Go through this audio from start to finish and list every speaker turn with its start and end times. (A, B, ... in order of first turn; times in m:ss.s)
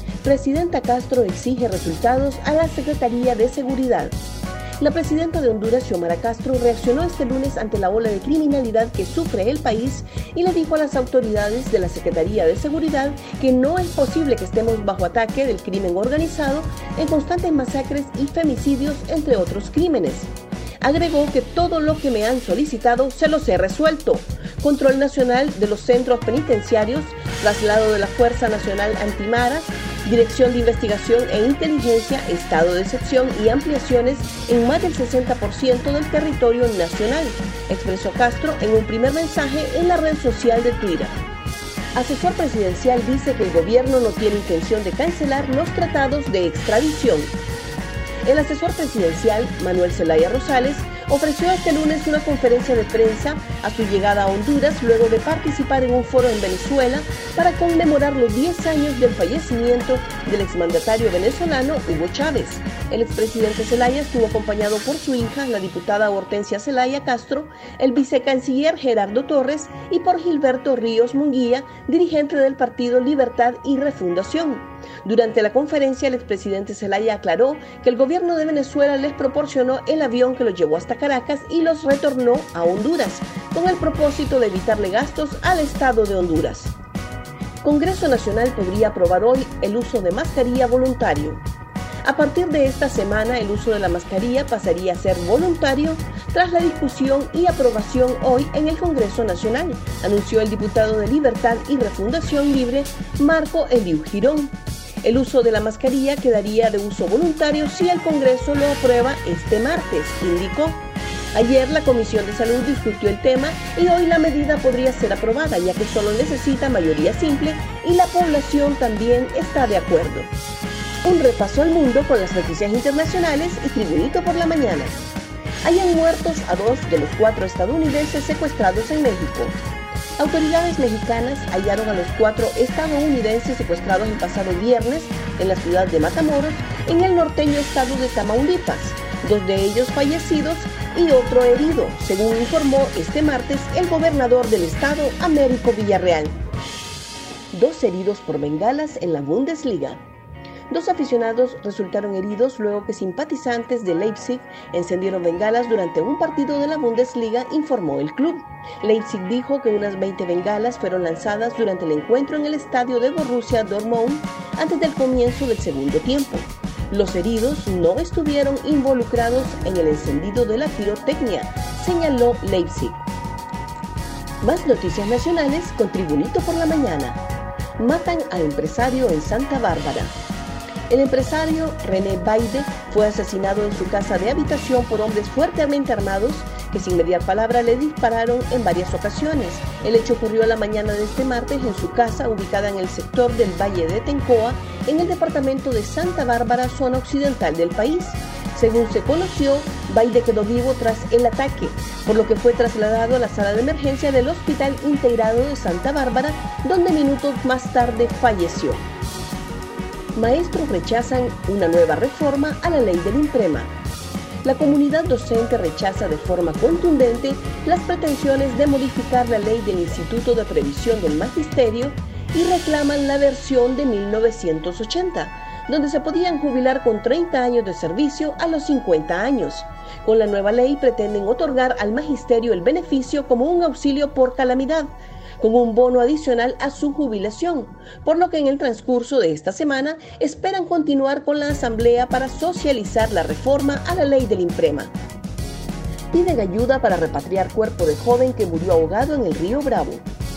0:00.2-0:04.2 A
0:04.8-0:41.2 A
0:41.9-0:47.3 A
0:48.2-1:26.7 A
1:27.6-1:31.4 A
1:32.0-2:00.3 A
2:01.0-2:05.0 A
2:05.6-2:09.6 A
2:10.2-2:26.4 A
2:27.5-2:30.0 A
2:30.7-2:53.0 A
2:54.4-2:57.2 A
2:57.8-3:00.2 A
3:00.9-3:28.9 A
3:30.1-3:33.7 A
3:34.4-4:04.9 A
4:06.1-4:10.0 A